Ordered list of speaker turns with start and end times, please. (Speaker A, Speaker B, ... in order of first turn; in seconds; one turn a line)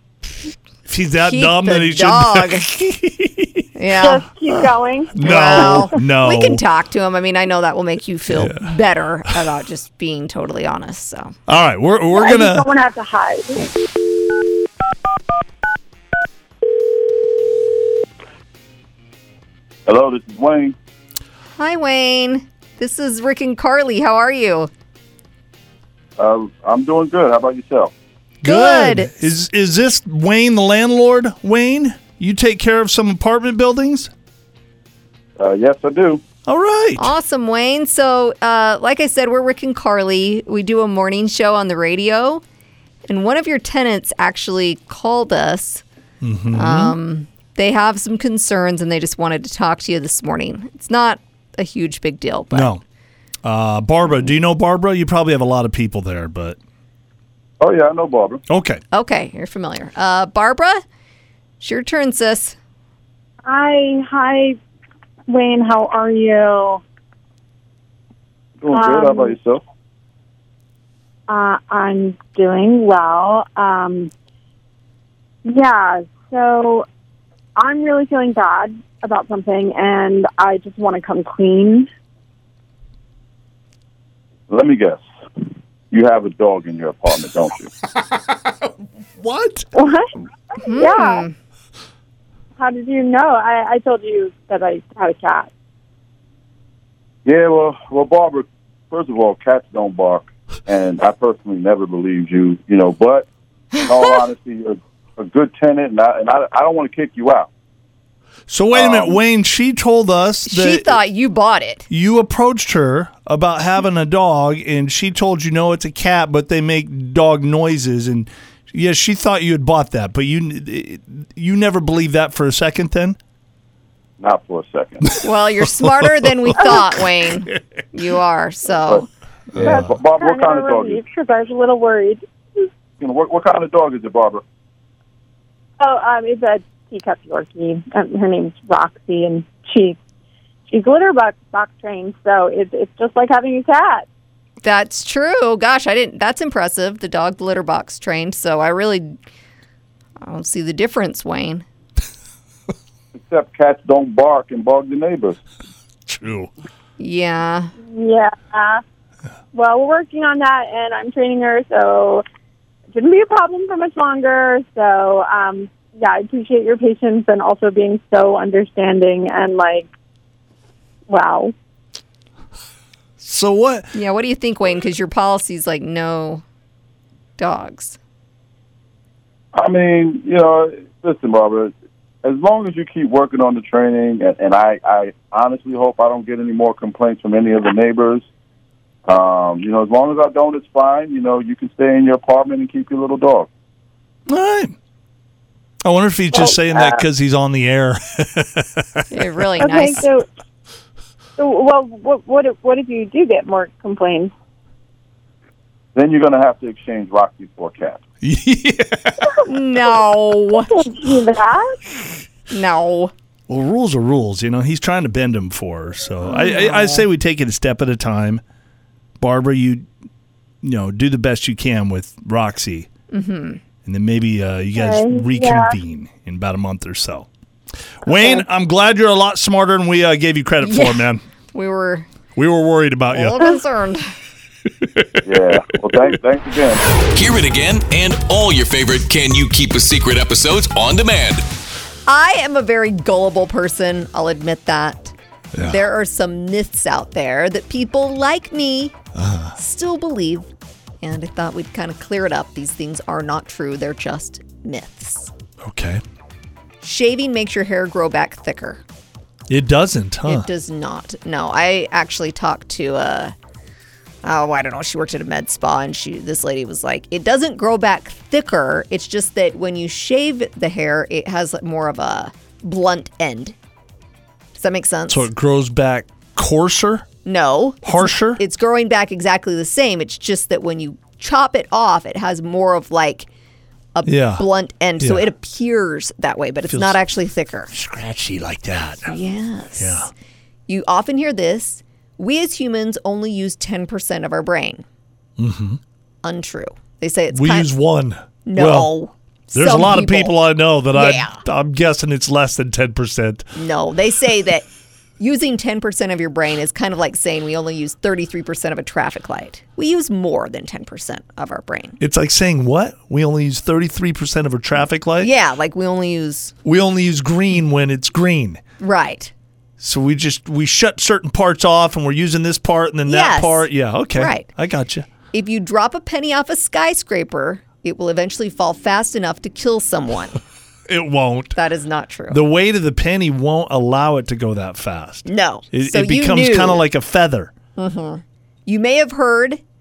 Speaker A: 0.9-3.8
Speaker B: 1.2-2.7
Speaker B: 3.8-4.2
Speaker C: 4.0-5.8
Speaker A: 5.1-6.6
Speaker B: 5.2-11.3
Speaker A: 8.3-8.7
Speaker A: 11.5-12.7
Speaker C: 12.1-13.6
Speaker D: 19.9-20.7
Speaker B: 21.6-24.7
Speaker D: 26.2-27.9
Speaker A: 28.4-34.1
Speaker B: 28.4-29.3
Speaker D: 35.4-36.2
Speaker A: 36.5-37.1
Speaker B: 37.0-42.4
Speaker B: 43.1-45.8
Speaker A: 46.2-47.0
Speaker B: 46.5-52.7
Speaker A: 52.5-52.8
Speaker A: 53.4-56.6
Speaker D: 57.6-58.4
Speaker A: 58.5-58.8
Speaker B: 58.9-60.8
Speaker B: 61.6-62.6
Speaker C: 63.5-64.6
Speaker C: 65.3-66.8
Speaker D: 68.6-69.6
Speaker C: 68.7-69.3
Speaker C: 71.3-74.1
Speaker C: 75.4-76.8
Speaker C: 77.6-81.9
Speaker D: 84.5-85.0
Speaker D: 85.9-87.7
Speaker A: 88.0-88.6
Speaker A: 89.2-89.7
Speaker C: 89.7-90.1
Speaker B: 90.6-91.3
Speaker C: 90.6-91.2
Speaker C: 92.6-95.5
Speaker D: 97.2-107.5
Speaker A: 108.5-111.0
Speaker D: 108.7-109.2
Speaker B: 110.4-111.9
Speaker A: 111.9-123.2
Speaker D: 124.2-125.2
Speaker A: 125.0-127.5
Speaker B: 125.2-129.1
Speaker D: 129.5-131.0
Speaker C: 129.6-132.7
Speaker A: 129.6-129.9
Speaker D: 133.0-134.4
Speaker C: 135.8-139.9
Speaker C: 140.7-144.0
Speaker B: 144.6-149.2
Speaker B: 150.2-151.7
Speaker D: 153.1-155.4
Speaker A: 156.1-156.5
Speaker B: 157.0-157.7
Speaker C: 157.8-158.8
Speaker C: 159.5-162.2
Speaker C: 162.9-169.9
Speaker C: 171.1-171.5
Speaker A: 173.2-173.9
Speaker B: 173.9-176.4
Speaker B: 177.4-178.0
Speaker D: 179.5-181.7
Speaker D: 182.2-188.2
Speaker D: 189.1-193.5
Speaker A: 194.3-194.8
Speaker A: 195.8-199.3
Speaker B: 199.1-200.1
Speaker C: 199.6-200.2
Speaker C: 201.4-204.3
Speaker D: 205.9-208.0
Speaker A: 208.2-209.3
Speaker B: 209.4-210.7
Speaker C: 210.6-211.7
Speaker B: 212.5-213.1
Speaker A: 213.5-218.4
Speaker B: 216.2-217.0
Speaker A: 219.2-219.9
Speaker A: 220.6-222.9
Speaker B: 223.1-223.6
Speaker A: 223.8-227.3
Speaker C: 224.8-225.8
Speaker A: 228.0-231.2
Speaker B: 228.1-228.4
Speaker B: 230.6-232.1
Speaker A: 232.3-233.4
Speaker B: 233.1-234.1
Speaker A: 234.8-236.1
Speaker D: 235.2-236.8
Speaker E: 237.1-241.5
Speaker B: 242.1-248.9
Speaker A: 245.5-245.8
Speaker A: 249.1-249.6
Speaker B: 249.6-250.5
Speaker B: 251.0-255.3
Speaker A: 255.6-256.0
Speaker B: 256.8-258.8
Speaker A: 259.5-260.5
Speaker B: 260.2-263.3
Speaker B: 264.2-273.5
Speaker B: 274.5-275.3
Speaker A: 275.1-277.1
Speaker B: 277.2-283.3
Speaker A: 277.8-278.4
Speaker B: 283.9-287.7
Speaker A: 284.0-284.4
Speaker A: 285.0-285.3
Speaker A: 286.7-287.0
Speaker A: 287.7-289.1
Speaker B: 289.1-290.1
Speaker A: 289.8-290.1
Speaker B: 290.7-294.8
Speaker A: 295.4-295.8
Speaker B: 296.2-297.7
Speaker A: 297.3-298.9
Speaker B: 298.4-300.4
Speaker A: 299.5-303.5
Speaker B: 300.9-301.4
Speaker B: 303.5-304.6
Speaker B: 305.2-312.0
Speaker A: 312.0-315.3
Speaker B: 315.2-316.5
Speaker A: 316.6-318.6
Speaker B: 318.8-319.3
Speaker A: 319.8-325.1
Speaker B: 323.1-324.5
Speaker B: 325.3-330.4
Speaker A: 330.9-331.6
Speaker B: 331.5-332.4
Speaker A: 332.3-337.5
Speaker B: 335.2-336.9
Speaker B: 337.8-339.6